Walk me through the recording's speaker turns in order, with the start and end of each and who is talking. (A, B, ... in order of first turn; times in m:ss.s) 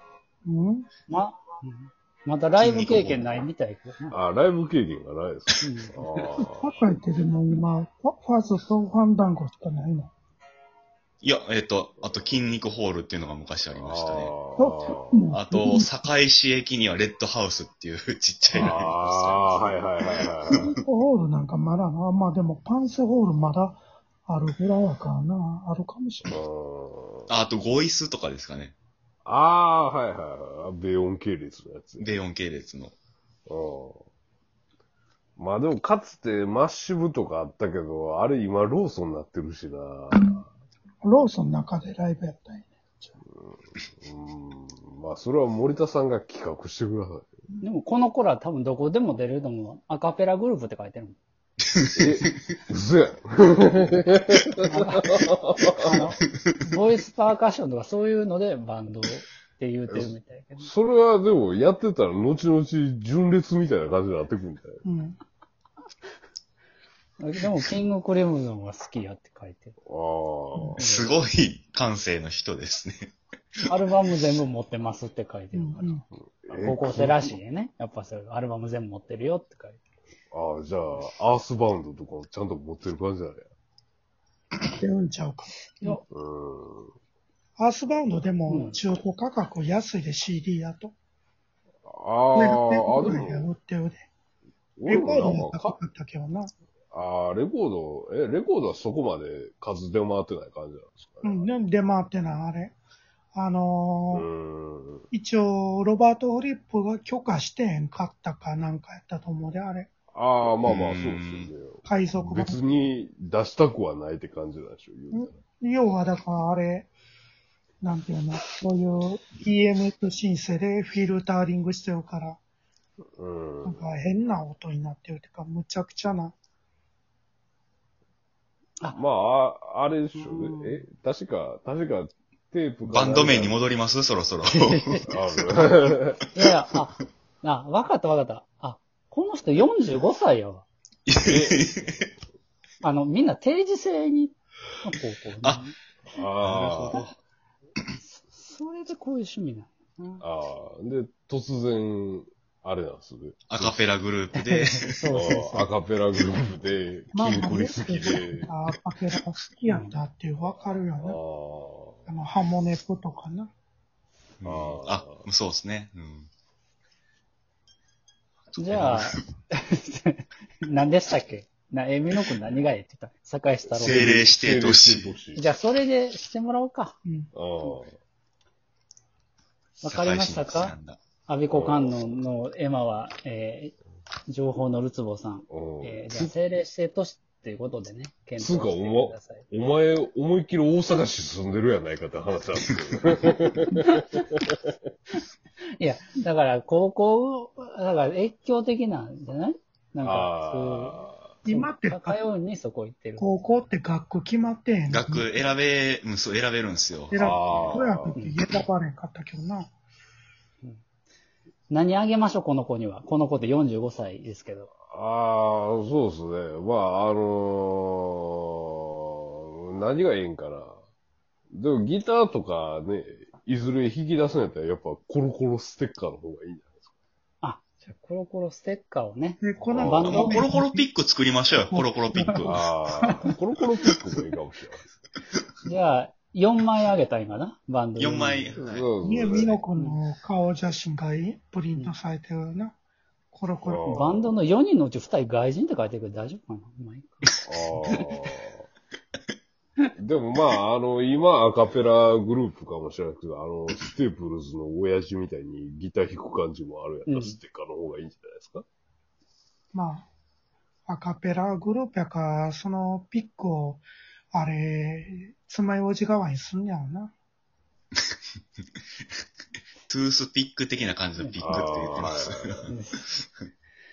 0:00.4-0:00.9 A
0:01.1-0:04.2 B
0:02.6-0:03.4 C
0:04.1-0:06.7 D
0:05.6-0:06.3 B
0:06.4-0:10.1 A
0:11.2-0:14.3 C
0:13.7-0:15.2 D
0:14.6-0:15.9 A
0:15.3-0:20.6 C
0:18.5-0:20.7 D
0:20.6-0:26.4 A
0:26.3-0:27.3 D
0:27.3-0:28.7 C
0:29.2-0:32.1 D
0:32.0-0:32.9 C
0:33.5-0:34.0 D
0:35.4-0:40.4 D
0:41.0-0:43.2 A
0:43.3-0:47.3 D
0:47.6-0:51.2 B
0:51.8-0:52.3 C
0:52.0-0:56.0 D
0:54.6-0:55.2 B
0:55.7-1:00.7 B
0:59.9-1:04.8 D
1:04.8-1:05.2 A
1:07.2-1:09.7 B
1:09.9-1:10.8 D
1:10.8-1:11.1 B
1:10.8-1:13.1 C
1:13.7-1:16.0 B
1:15.5-1:16.0 A
1:16.2-1:17.4 D
1:16.5-1:19.8 B
1:20.3-1:23.4 D
1:24.8-1:26.0 A
1:26.1-1:26.9 D
1:27.6-1:30.9 A
1:28.5-1:28.8 B
1:31.8-1:33.5 D
1:32.3-1:34.1 A
1:34.8-1:35.7 D
1:34.9-1:36.5 A
1:36.9-1:41.5 D
1:41.2-1:42.8 A
1:43.3-1:44.2 A
1:44.1-1:45.1 D
1:45.1-1:49.9 A
1:50.1-1:55.4 D
1:50.6-1:51.5 C
1:51.8-1:52.6 A
1:55.1-1:56.9 A
1:57.8-2:02.4 A
2:03.2-2:03.9 D
2:03.6-2:06.4 A
2:08.9-2:13.6 D
2:10.1-2:10.8 B
2:12.8-2:15.2 C
2:14.7-2:15.0 B
2:15.1-2:16.2 D
2:16.3-2:20.7 B
2:21.1-2:21.9 C
2:21.2-2:21.7 D
2:22.8-2:25.7 B
2:26.1-2:27.0 D
2:26.4-2:27.1 C
2:28.0-2:30.2 B
2:30.2-2:33.8 D
2:33.5-2:35.0 C
2:34.4-2:35.7 B
2:35.1-2:38.5 D
2:37.1-2:41.2 A
2:39.7-2:39.9 B
2:41.0-2:42.1 D
2:42.1-2:43.5 A
2:44.4-2:46.3 C
2:44.4-2:45.2 D
2:48.5-2:49.2 C
2:48.6-2:54.2 B
2:53.8-2:55.1 C
2:53.8-2:55.5 D
2:55.4-2:57.0 B
2:57.0-2:57.3 A
2:57.3-2:57.9 D
2:59.8-3:01.0 C
2:59.8-3:03.7 B
3:01.5-3:02.2 D
3:04.3-3:09.4 B
3:05.5-3:06.3 D
3:08.4-3:14.4 D
3:13.7-3:14.2 B
3:15.8-3:23.2 B
3:20.0-3:21.3 D
3:21.4-3:22.2 A
3:23.2-3:25.3 A
3:24.9-3:27.2 C
3:27.1-3:29.7 A
3:27.1-3:28.2 D
3:28.1-3:28.4 B
3:31.7-3:34.7 B
3:34.9-3:38.5 D
3:39.6-3:40.8 D
3:41.5-3:46.9 D
3:47.4-3:50.5 B
3:49.4-3:50.8 A
3:49.7-3:50.2 D
3:50.0-3:52.6 C
3:51.7-3:52.5 A
3:52.2-3:52.5 B
3:52.4-3:54.8 D
3:53.0-3:53.3 B
3:55.6-3:58.6 B
3:58.0-3:58.8 C
3:58.6-3:59.5 D
3:59.0-4:02.7 A
4:03.3-4:04.2 A
4:03.6-4:04.3 D
4:03.9-4:07.3 B
4:07.4-4:08.6 D
4:10.0-4:18.6 D
4:17.1-4:17.4 B
4:19.7-4:20.1 A
4:20.9-4:27.1 A
4:29.9-4:32.7 C
4:31.2-4:31.6 B
4:31.4-4:32.7 D
4:32.7-4:33.2 B